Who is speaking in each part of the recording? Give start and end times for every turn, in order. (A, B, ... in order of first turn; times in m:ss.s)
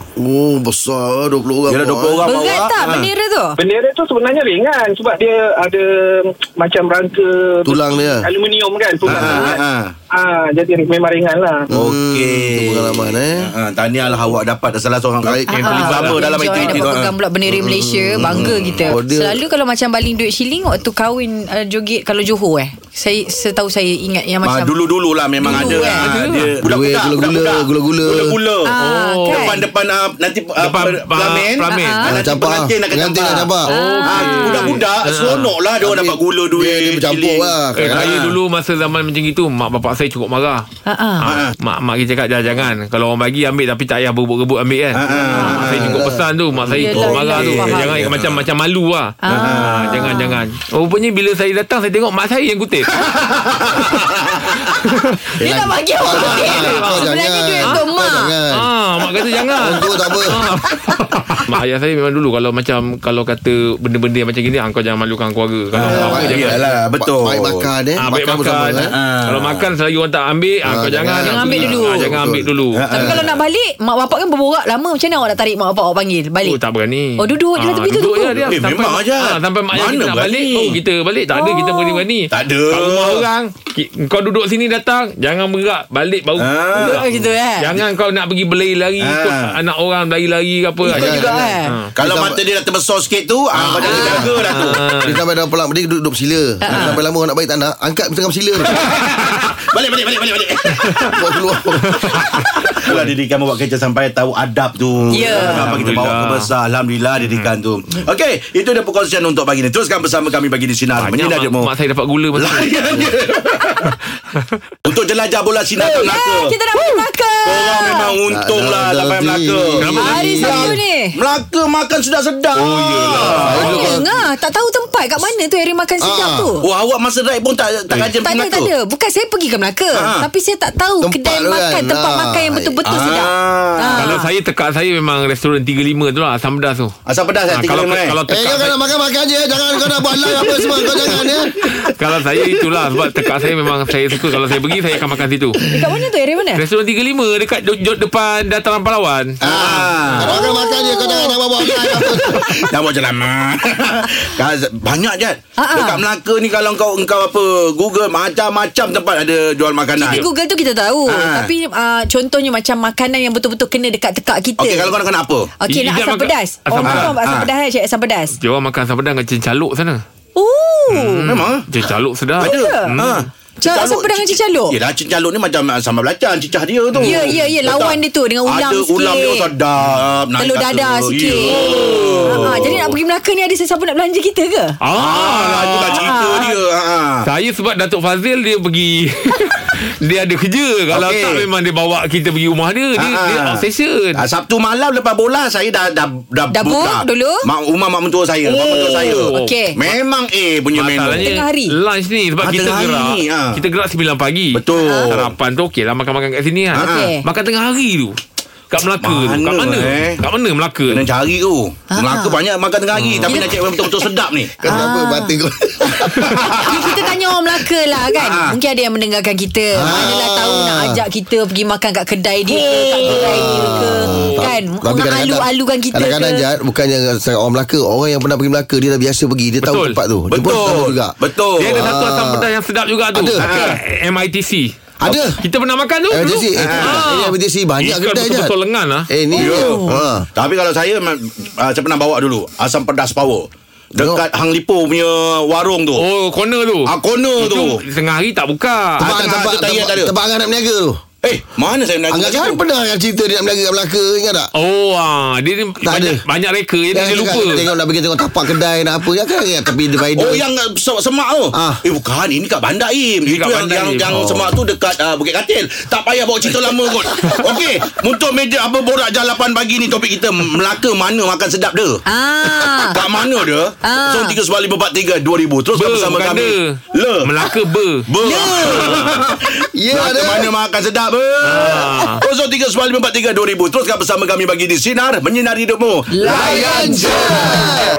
0:00.2-0:02.2 A
0:01.7-0:03.1 B
0:02.2-0:03.6 C
0:03.6-0:11.7 D
0:07.7-0:08.2 A
0:09.1-0:09.9 B
0:09.2-0:09.5 C
0:11.7-0:17.1 B
0:11.7-0:13.5 A
0:15.2-0:15.7 A
0:15.5-0:24.7 C
0:15.7-0:16.2 E
0:17.5-0:19.4 A
0:18.2-0:18.9 B
0:24.4-0:28.7 B
0:25.4-0:26.1 C
0:25.4-0:26.5 E
0:26.6-0:28.4 A
0:28.7-0:29.6 C
0:28.8-0:29.6 E
0:29.3-0:38.4 B
0:30.6-0:32.0 E
0:31.7-0:32.1 C
0:32.1-0:33.6 A
0:33.7-0:35.5 E
0:33.7-0:34.8 C
0:35.8-0:38.1 A
0:37.8-0:40.6 E
0:40.9-0:41.3 C
0:41.2-0:53.0 E
0:41.2-0:41.5 B
0:44.9-0:46.0 B
0:45.2-0:45.6 C
0:45.5-0:46.3 A
0:46.7-0:48.0 C
0:46.8-0:48.4 B
0:49.2-0:50.4 C
0:49.3-0:50.2 B
0:53.0-0:54.6 B
0:54.7-0:55.1 E
0:55.4-0:58.4 C
0:55.4-0:58.7 A
0:56.3-0:57.1 E
0:58.6-1:06.6 E
0:59.6-1:00.4 A
1:05.7-1:07.7 B
1:05.9-1:06.3 C
1:05.9-1:08.9 A
1:08.0-1:13.2 E
1:08.9-1:09.7 B
1:10.6-1:12.5 A
1:11.2-1:12.1 C
1:12.7-1:13.4 B
1:12.9-1:16.6 C
1:16.4-1:31.9 E
1:17.2-1:18.5 C
1:18.4-1:20.8 B
1:21.3-1:22.0 C
1:22.3-1:23.3 B
1:26.4-1:27.1 B
1:26.8-1:27.7 C
1:29.0-1:29.6 B
1:30.9-1:31.3 B
1:30.9-1:31.8 C
1:30.9-1:32.4 A
1:32.0-1:34.8 B
1:33.5-1:34.4 A
1:33.9-1:34.2 C
1:34.5-1:35.2 E
1:35.0-1:38.7 A
1:36.7-1:37.0 C
1:38.7-1:41.2 B
1:41.1-1:42.0 A
1:41.9-1:42.2 E
1:42.1-1:51.7 B
1:45.1-1:45.8 C
1:45.3-1:46.5 E
1:51.0-1:53.0 E
1:52.4-1:54.0 B
1:54.9-1:56.6 B
1:55.8-1:58.1 C
1:57.4-2:03.9 B
1:58.3-2:00.8 A
1:59.8-2:00.5 E
2:00.0-2:01.2 C
2:02.6-2:03.8 E
2:03.4-2:04.3 A
2:03.5-2:06.6 C
2:06.0-2:06.5 A
2:06.6-2:08.7 B
2:08.2-2:14.3 C
2:10.0-2:10.3 B
2:11.0-2:12.8 A
2:12.9-2:14.0 B
2:14.0-2:17.0 E
2:17.1-2:18.2 B
2:17.5-2:18.8 E
2:18.3-2:21.7 A
2:21.8-2:25.6 E
2:25.6-2:26.6 C
2:26.6-2:29.4 E
2:29.4-2:30.4 B
2:29.5-2:32.2 C
2:30.2-2:32.4 A
2:31.7-2:40.3 B
2:35.6-2:36.0 C
2:40.0-2:45.0 C
2:41.1-2:41.5 B
2:44.6-2:45.5 B
2:45.6-2:48.3 C
2:45.7-2:47.2 E
2:46.9-2:47.5 B
2:48.3-2:50.0 E
2:50.4-2:51.3 C
2:50.9-2:53.2 E
2:51.3-2:51.7 B
2:52.4-3:02.9 B
2:52.4-2:53.0 C
2:53.6-2:54.8 C
2:57.0-2:59.5 C
3:00.4-3:04.8 C
3:01.5-3:02.6 E
3:04.8-3:06.1 E
3:05.0-3:07.3 B
3:06.0-3:06.6 C
3:07.2-3:14.2 E
3:10.9-3:11.4 B
3:13.0-3:13.6 B
3:14.2-3:21.3 B
3:16.5-3:17.4 C
3:18.4-3:19.6 E
3:19.3-3:19.8 C
3:20.8-3:28.2 E
3:21.2-3:21.7 C
3:22.4-3:23.6 B
3:24.5-3:25.3 B
3:24.8-3:25.1 C
3:26.7-3:27.1 B
3:26.8-3:27.2 C
3:28.7-3:31.1 E
3:29.0-3:30.2 B
3:30.9-3:34.6 B
3:31.9-3:32.4 C
3:32.9-3:33.5 E
3:33.3-3:34.1 C
3:34.6-3:36.6 A
3:34.6-3:35.4 C
3:36.3-3:37.2 B
3:36.6-3:46.5 C
3:38.1-3:38.6 B
3:39.8-3:41.0 A
3:42.5-3:44.5 E
3:43.0-3:51.2 A
3:49.6-3:50.0 E
3:50.3-3:51.8 B
3:51.6-3:54.7 E
3:51.8-3:52.5 A
3:53.1-3:53.5 A
3:53.4-3:53.8 B
3:55.0-3:55.3 A
3:55.4-3:59.1 E
3:56.1-3:58.5 A
3:56.6-3:57.1 B
3:59.1-4:00.3 A
3:59.4-4:06.0 B
3:59.4-4:00.0 C
4:06.0-4:09.0 E
4:06.9-4:07.8 B
4:09.0-4:10.1 B
4:09.0-4:11.0 A
4:11.2-4:12.6 B
4:12.1-4:14.5 A
4:14.6-4:17.6 E
4:15.8-4:16.2 A
4:16.9-4:20.4 A
4:20.1-4:32.0 B
4:21.5-4:21.8 A
4:23.3-4:24.2 E
4:24.1-4:24.5 A
4:32.1-4:33.0 C
4:32.6-4:37.4 B
4:33.8-4:34.4 C
4:35.7-4:38.0 E
4:38.1-4:47.3 B
4:38.2-4:39.0 C
4:39.6-4:40.5 A
4:41.4-4:42.2 E
4:46.1-4:47.6 C
4:46.3-4:47.9 A